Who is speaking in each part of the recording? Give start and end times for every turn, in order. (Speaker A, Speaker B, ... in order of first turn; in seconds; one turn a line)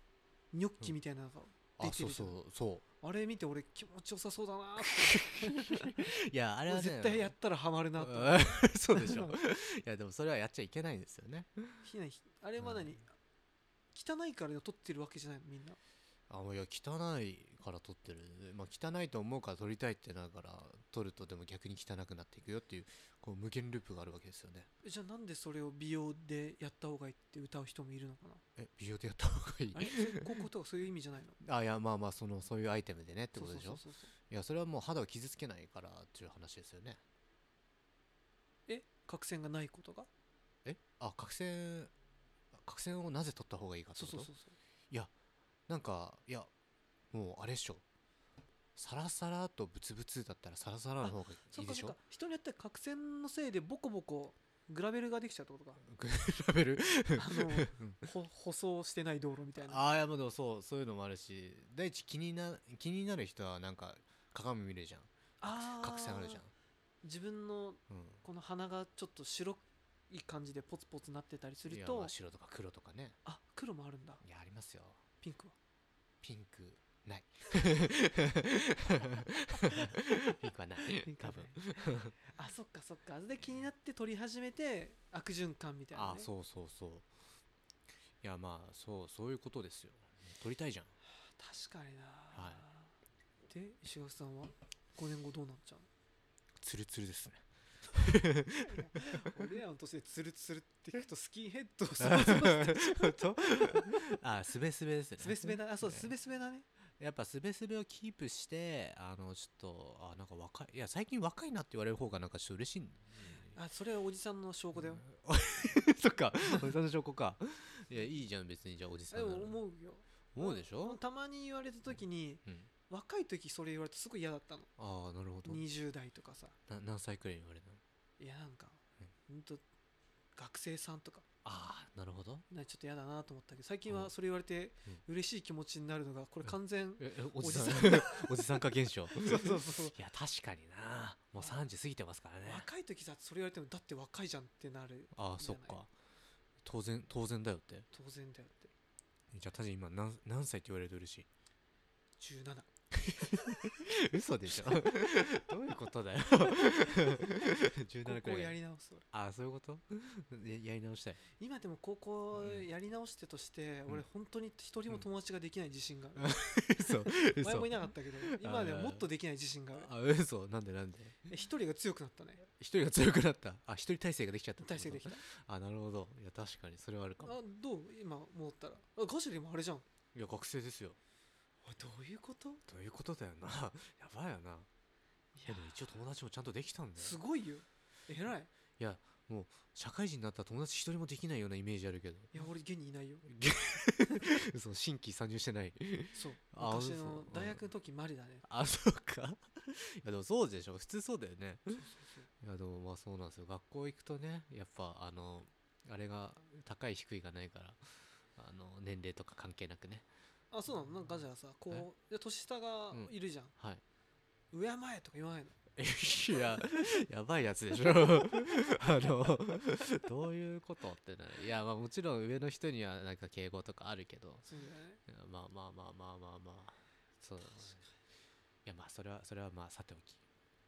Speaker A: 0.5-2.4
Speaker B: 1.8-2.8
Speaker A: 3.0-6.1
Speaker B: 4.8-7.3
Speaker A: 6.7-9.4
Speaker B: 8.0-11.6
Speaker A: 11.8-13.1
Speaker B: 12.6-12.9
Speaker A: 13.9-15.8
Speaker B: 16.3-24.7
Speaker A: 24.8-28.4
Speaker B: 28.6-30.3
Speaker A: 29.7-31.4
Speaker B: 31.4-37.0
Speaker A: 33.4-34.1
Speaker A: 38.7-40.1
Speaker B: 40.6-41.9
Speaker B: 42.5-44.3
Speaker A: 44.0-44.5
Speaker B: 45.7-46.5
Speaker B: 47.1-47.8
Speaker B: 48.8-52.0
Speaker A: 51.0-55.8
Speaker B: 55.8-58.0
Speaker A: 57.1-59.8
Speaker B: 59.6-66.5
Speaker A: 65.4-66.4
Speaker A: 67.0-72.1
Speaker B: 67.9-68.2
Speaker B: 71.7-73.2
Speaker A: 73.2-74.2
Speaker B: 74.2-75.0
Speaker A: 75.2-75.5
Speaker B: 76.2-82.1
Speaker A: 80.9-86.3
Speaker B: 85.9-87.1
Speaker B: 88.2-90.9
Speaker A: 91.3-92.9
Speaker B: 92.3-92.6
Speaker A: 93.5-95.9
Speaker B: 96.6-99.5
Speaker A: 98.6-104.1
Speaker B: 102.0-106.1
Speaker A: 105.2-106.7
Speaker B: 107.0-113.5
Speaker A: 113.5-115.0
Speaker B: 114.8-119.6
Speaker A: 119.1-124.7
Speaker B: 120.3-121.0
Speaker B: 124.8-125.6
Speaker A: 125.4-126.5
Speaker B: 126.7-127.8
Speaker A: 128.2-129.6
Speaker A: 130.3-131.2
Speaker B: 131.4-132.4
Speaker A: 132.5-138.5
Speaker B: 137.0-142.7
Speaker A: 139.1-139.9
Speaker A: 142.4-145.8
Speaker B: 145.1-145.9
Speaker B: 146.6-147.9
Speaker A: 147.9-148.7
Speaker B: 149.3-151.3
Speaker A: 152.2-152.7
Speaker B: 152.9-158.6
Speaker A: 156.6-157.5
Speaker A: 158.0-159.0
Speaker B: 159.1-161.2
Speaker A: 161.4-169.9
Speaker B: 162.3-162.6
Speaker B: 166.2-169.0
Speaker B: 169.7-171.2
Speaker A: 171.3-172.4
Speaker B: 172.6-177.4
Speaker A: 174.6-175.2
Speaker A: 177.2-179.8
Speaker B: 180.1-181.0
Speaker A: 181.6-182.6
Speaker B: 182.7-184.7
Speaker A: 185.3-185.8
Speaker B: 185.5-187.2
Speaker A: 187.0-188.5
Speaker B: 188.8-192.3
Speaker A: 192.3-193.3
Speaker B: 193.2-197.6
Speaker A: 196.1-198.4
Speaker B: 198.4-201.9
Speaker A: 201.7-202.3
Speaker B: 202.4-210.1
Speaker A: 210.5-213.5
Speaker B: 212.9-213.8
Speaker A: 214.5-215.5
Speaker B: 215.8-224.4
Speaker A: 224.4-225.0
Speaker B: 225.1-227.8
Speaker B: 228.6-230.2